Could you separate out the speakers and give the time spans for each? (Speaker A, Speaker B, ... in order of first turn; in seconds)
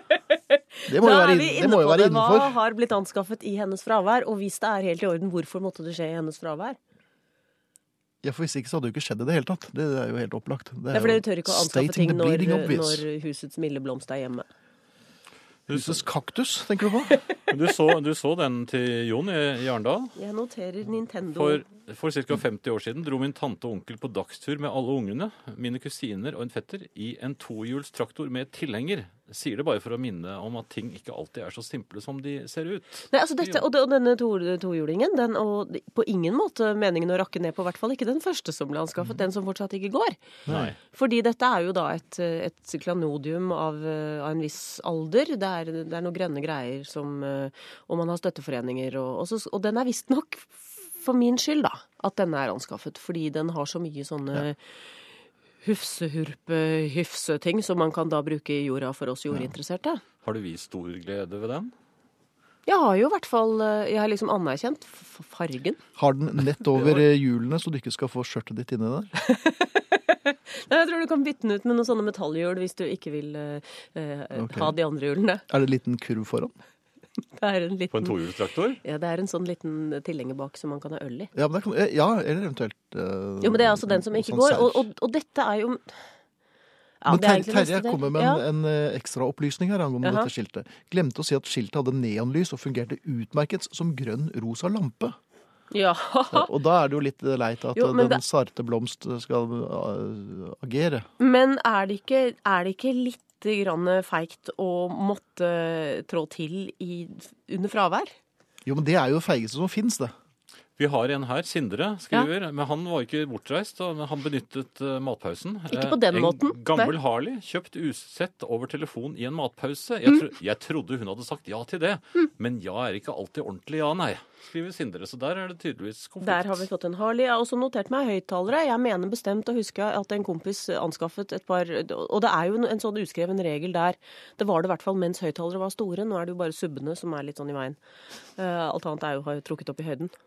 Speaker A: 0.8-6.8, 10.9-14.5, 20.1-21.6, 33.1-40.2, 40.9-54.6, 55.6-60.0, 62.6-65.8, 69.2-75.4, 77.3-78.2, 78.8-81.3, 83.4-86.0, 87.0-88.4, 90.0-90.3, 95.7-96.5, 97.8-98.2, 101.2-108.1, 115.7-116.9, 126.2-137.8, 138.3-140.1
Speaker B: 0.8-2.5, 8.2-13.0, 15.7-17.2, 40.5-40.7, 66.0-69.1, 74.3-74.8, 75.5-76.5, 81.3-84.8, 87.1-95.2, 96.3-101.1, 108.7-110.1
Speaker C: 15.7-16.1, 17.5-20.1, 21.4-33.6, 40.5-40.8, 60.2-61.7, 66.7-67.0, 77.9-78.8, 110.8-126.7